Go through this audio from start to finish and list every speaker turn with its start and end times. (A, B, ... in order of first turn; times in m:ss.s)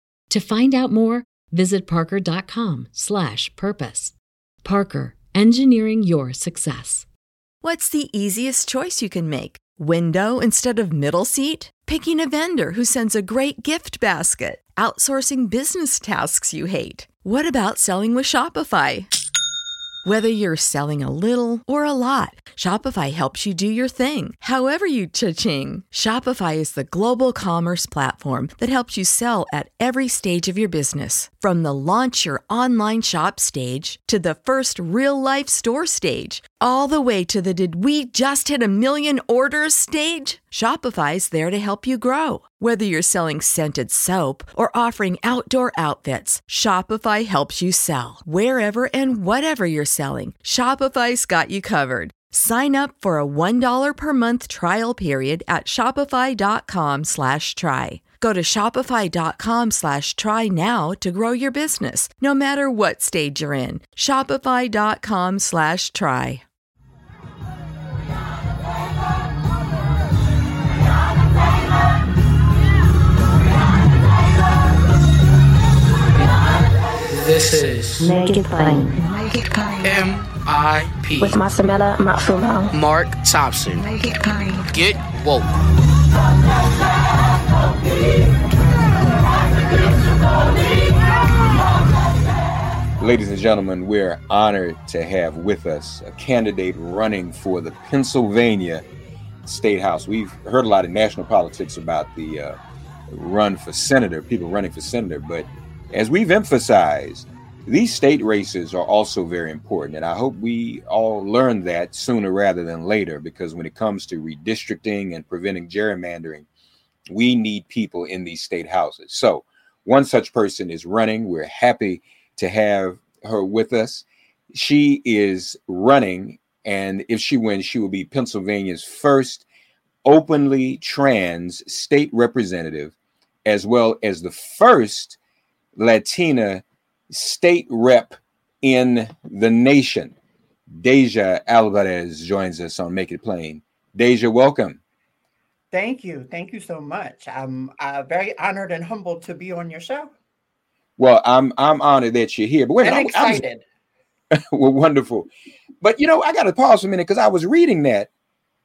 0:00.3-0:07.1 A
0:07.6-0:19.1 B
0:20.0-1:06.4 B
1:17.1-1:18.1 C
1:18.0-1:19.0 D
1:18.0-1:20.0 E
1:19.8-1:21.4 C
1:21.2-1:22.7 D
1:22.7-1:23.9 C
1:23.8-1:24.7 E
1:24.7-1:25.6 C
1:33.0-1:38.8 F
1:39.4-1:42.6 F
1:43.1-1:56.5 F
1:57.1-2:09.4 F
2:10.0-2:12.9 F
2:13.4-2:15.2 F
2:15.8-2:20.1 F
2:20.7-2:24.8 F
2:25.7-2:30.1 G
2:31.0-2:33.4 F
2:32.8-2:33.6 G
2:34.3-2:35.3 F
2:35.8-2:38.1 F